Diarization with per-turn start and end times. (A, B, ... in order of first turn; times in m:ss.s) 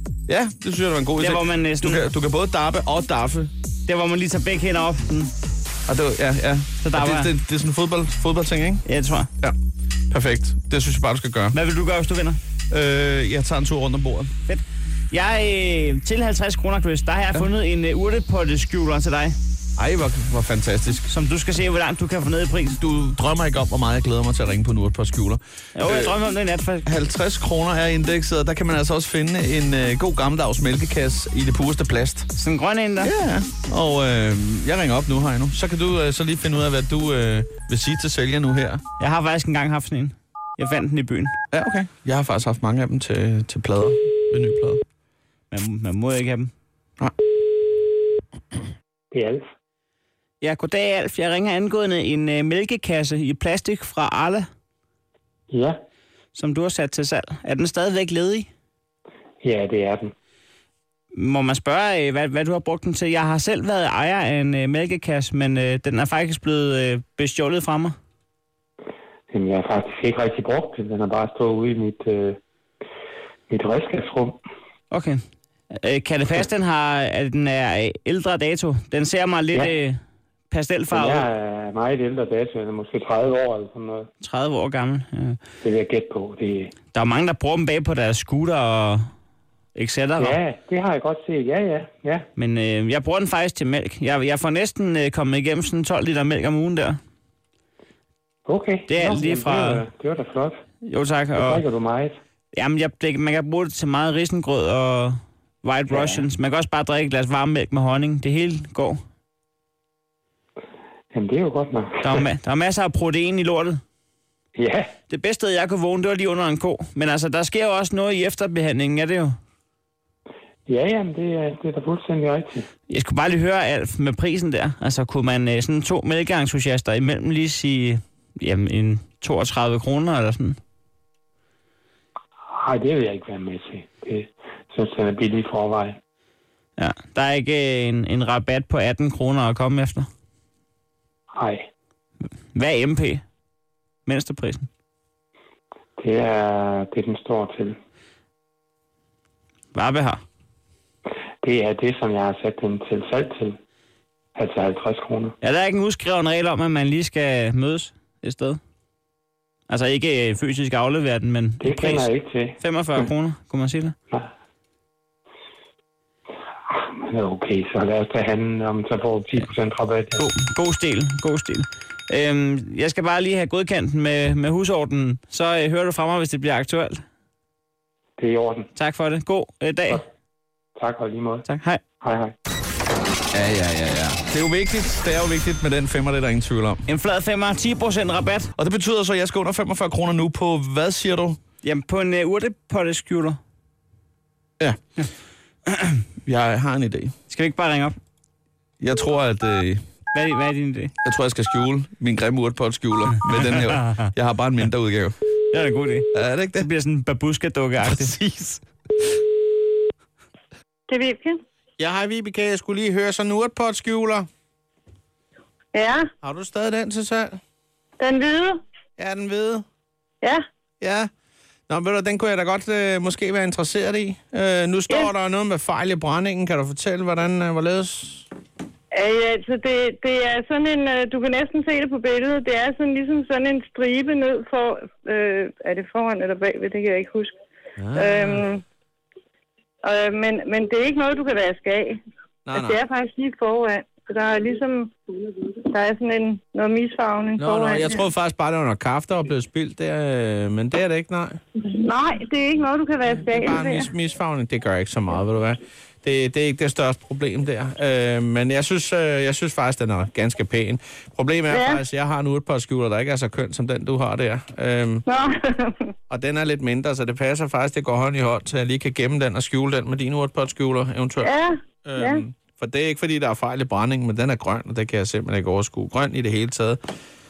0:00.3-0:03.5 A
0:01.2-0:02.0 B
0:03.8-0:05.3 B
0:05.9-0:08.8 A
0:06.8-0:07.3 B
0:08.8-0:09.3 B
0:10.1-0:11.6 A
0:11.5-0:12.4 B
0:12.7-0:14.3 A
0:14.5-0:19.4 B
0:19.8-0:21.1 A
0:21.1-0:22.8 B
0:22.8-0:26.1 A
0:25.7-0:26.9 B
0:26.8-0:32.3 A
0:32.3-0:33.1 B
0:33.0-0:38.8 A
0:39.0-0:41.3 B
0:41.5-0:44.8 A
0:45.5-0:46.5 B
0:49.1-0:49.4 C
0:50.4-0:54.5 B
0:55.5-0:55.7 C
0:56.3-0:58.5 B
0:59.4-1:00.1 C
1:01.1-1:07.9 B
1:09.3-1:12.4 C
1:13.5-1:14.4 C
1:14.9-1:15.2 B
1:15.7-1:21.3 B
1:20.9-1:24.1 C
1:24.2-1:25.4 B
1:25.6-1:26.7 C
1:26.9-1:29.1 B
1:29.8-1:30.4 B
1:30.2-1:32.2 C
1:32.4-1:37.0 B
1:38.4-1:40.5 C
1:38.9-1:39.8 B
1:40.8-1:41.6 B
1:41.4-1:42.1 C
1:42.5-1:49.0 B
1:45.9-1:46.2 C
1:51.1-1:52.2 C
1:52.0-1:53.8 B
1:54.6-1:54.9 C
1:55.1-1:59.4 B
2:00.7-2:02.7 C
2:02.9-2:10.6 B
2:12.5-2:16.0 C
2:16.8-2:20.1 B
2:21.4-2:21.6 C
2:22.5-2:23.2 B
2:24.0-2:24.7 B
2:26.0-2:27.8 C
2:29.7-2:30.2 B
2:31.4-2:33.6 C
2:34.3-2:35.3 C
2:35.4-2:38.6 B
2:39.7-2:43.9 B
2:41.6-2:42.6 C
2:46.7-2:50.2 C
2:50.2-2:57.0 B
2:58.2-2:58.7 C
2:58.7-3:00.0 B
3:00.8-3:01.4 C
3:01.4-3:01.8 B
3:02.0-3:02.3 C
3:03.3-3:06.8 A
3:06.9-3:08.5 B
3:08.6-3:11.4 A
3:11.6-3:13.4 B
3:16.2-3:17.1 A
3:17.3-3:17.9 B
3:18.8-3:19.8 A
3:20.1-3:20.9 B
3:21.0-3:25.1 A
3:23.4-3:24.1 B
3:25.5-3:28.6 B
3:26.1-3:26.7 A
3:30.9-3:31.4 D
3:31.8-3:34.2 A
3:35.7-3:36.1 D
3:36.2-3:37.4 A
3:38.0-3:38.6 D
3:39.0-3:39.6 A
3:40.8-3:41.1 A
3:41.7-3:48.2 A
3:48.9-3:57.3 D
3:57.8-3:58.5 A
3:57.9-3:58.6 D
3:59.8-4:02.0 D
4:02.4-4:02.8 A
4:02.5-4:04.9 D
4:05.7-4:08.1 D
4:07.4-4:11.4 A
4:11.7-4:13.9 D
4:13.3-4:25.0 A
4:21.5-4:21.8 D
4:25.1-4:25.9 D
4:26.1-4:31.3 A
4:31.2-4:32.2 D
4:31.8-4:36.8 A